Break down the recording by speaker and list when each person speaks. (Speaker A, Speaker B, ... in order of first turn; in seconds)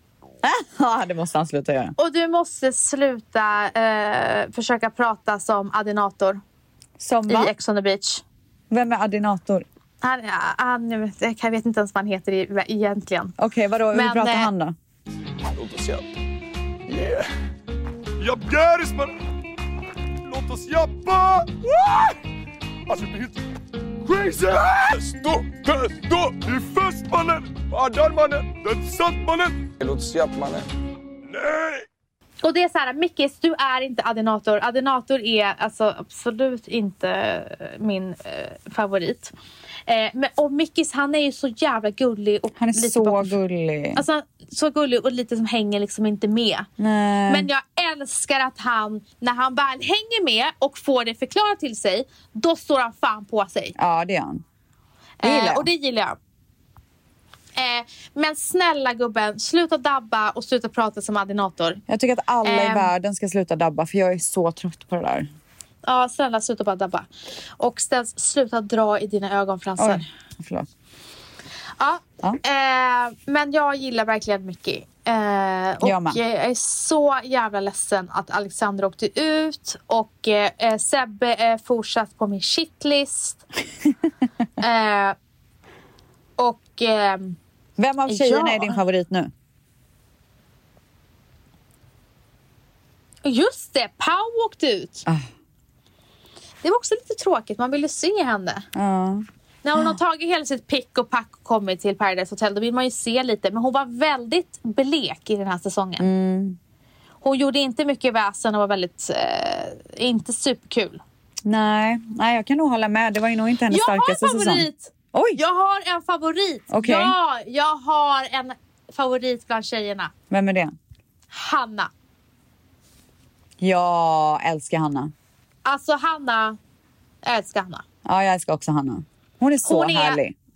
Speaker A: 0.4-2.0, 7.0-7.5, 8.7-9.7, 13.4-14.8, 42.6-44.0, 46.8-47.5, 53.8-54.4, 55.2-55.7, 61.9-65.3, 69.8-70.7, 75.8-76.2, 87.8-89.3, 98.8-99.3, 106.0-106.6, 111.5-115.4, 116.7-117.1, 120.3-120.8, 123.6-125.1, 128.1-130.3
Speaker B: 2.0-6.4, 7.3-8.2, 10.0-13.3, 13.9-14.5, 32.4-39.3, 39.9-43.4, 43.9-46.7, 47.3-53.8, 55.2-56.2, 57.6-61.8, 62.4-62.9, 65.8-67.1, 67.6-70.1, 71.8-83.4, 84.6-85.2, 86.4-87.4, 88.1-88.8, 93.2-95.1, 96.6-98.7, 99.6-106.1, 107.2-111.0, 113.7-120.1, 121.3-121.9, 125.7-126.6, 127.2-127.8, 129.6-130.2
Speaker C: 15.5-16.0, 16.9-17.3, 18.2-19.1, 20.2-22.2, 22.9-23.4, 24.0-30.6, 31.3-31.9